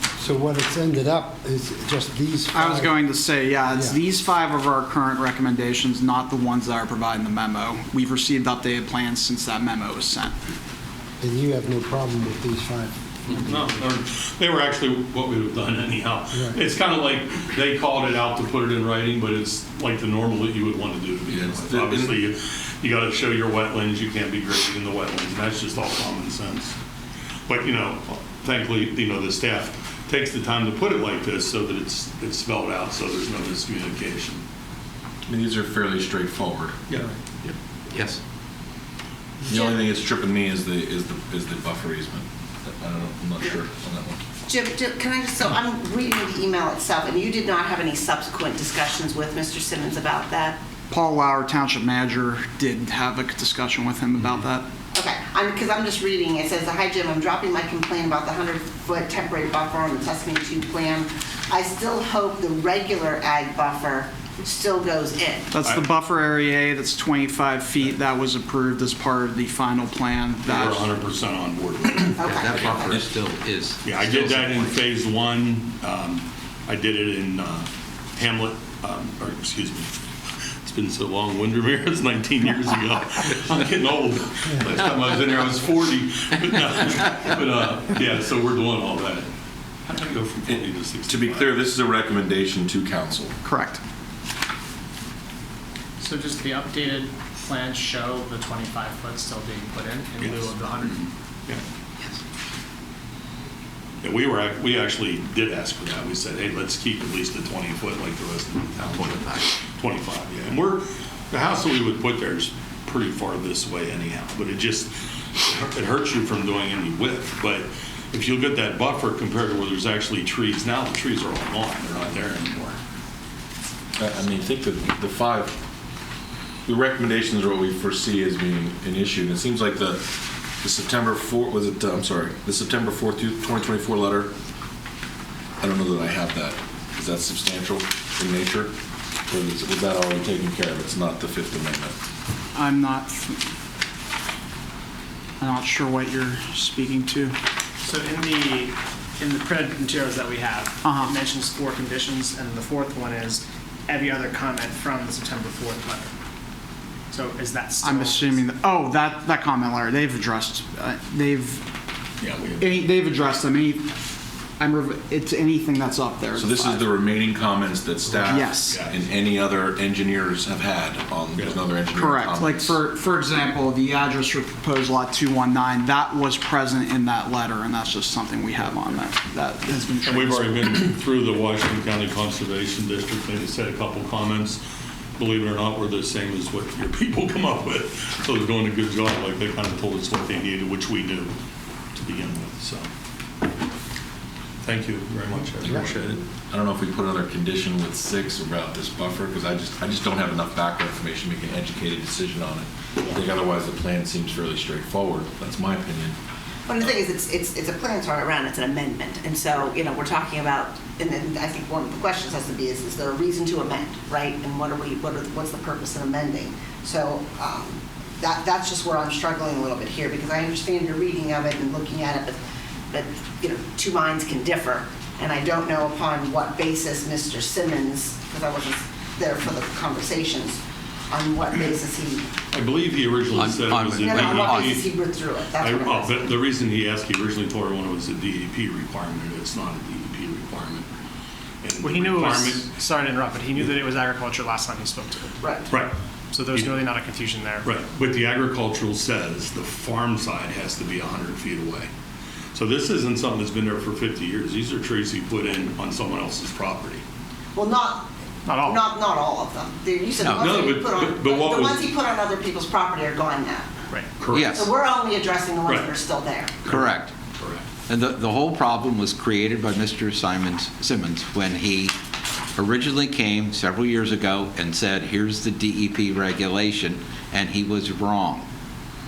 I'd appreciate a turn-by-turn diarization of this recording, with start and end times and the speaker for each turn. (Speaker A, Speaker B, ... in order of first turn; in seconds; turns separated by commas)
Speaker A: 0.2-3.0, Speaker B: 2.5-10.3, Speaker A: 3.6-4.0, Speaker A: 11.2-13.4, Speaker C: 13.3-26.8, Speaker D: 21.3-22.2, Speaker C: 27.5-34.4, Speaker D: 35.3-37.0, Speaker D: 39.5-44.2, Speaker E: 44.5-50.6, Speaker B: 50.9-54.7, Speaker E: 54.9-65.5, Speaker B: 65.5-70.9, Speaker C: 70.5-72.5, Speaker E: 72.2-73.1, Speaker F: 72.2-74.7, Speaker C: 73.8-79.9, Speaker C: 80.6-89.3, Speaker C: 89.9-91.6, Speaker D: 90.5-93.4, Speaker B: 93.4-93.8, Speaker G: 96.0-101.0, Speaker C: 100.2-101.6, Speaker C: 104.0-122.8, Speaker D: 124.0-125.6, Speaker D: 126.7-130.0, Speaker D: 130.6-134.3, Speaker D: 135.6-138.7, Speaker D: 139.3-142.0, Speaker B: 142.5-143.4, Speaker B: 145.4-147.4, Speaker G: 147.8-156.1, Speaker B: 150.8-151.1, Speaker G: 157.1-158.4, Speaker B: 157.8-161.7, Speaker C: 162.2-162.9, Speaker B: 162.6-163.9, Speaker B: 164.6-166.8, Speaker D: 166.3-172.8, Speaker C: 168.1-169.0, Speaker B: 168.3-168.8, Speaker B: 171.9-180.8, Speaker C: 180.0-184.6, Speaker C: 185.2-191.3, Speaker C: 191.9-192.9, Speaker C: 194.6-196.2, Speaker D: 195.6-206.2, Speaker E: 206.7-222.4, Speaker E: 222.9-232.3, Speaker C: 232.5-234.9, Speaker F: 233.3-234.8, Speaker E: 234.0-236.3, Speaker C: 235.6-240.9, Speaker C: 241.6-242.7, Speaker G: 241.8-245.4, Speaker E: 245.4-245.7, Speaker C: 245.7-246.0, Speaker G: 246.3-247.7, Speaker C: 246.5-246.8, Speaker C: 247.6-251.9, Speaker C: 252.5-257.0, Speaker E: 257.6-263.7, Speaker G: 258.5-258.9, Speaker F: 260.2-260.6, Speaker C: 260.3-261.9, Speaker C: 264.2-264.7, Speaker F: 264.3-264.7, Speaker E: 264.5-266.7, Speaker F: 266.7-267.1, Speaker C: 267.4-267.6, Speaker F: 267.9-271.9, Speaker F: 272.6-278.4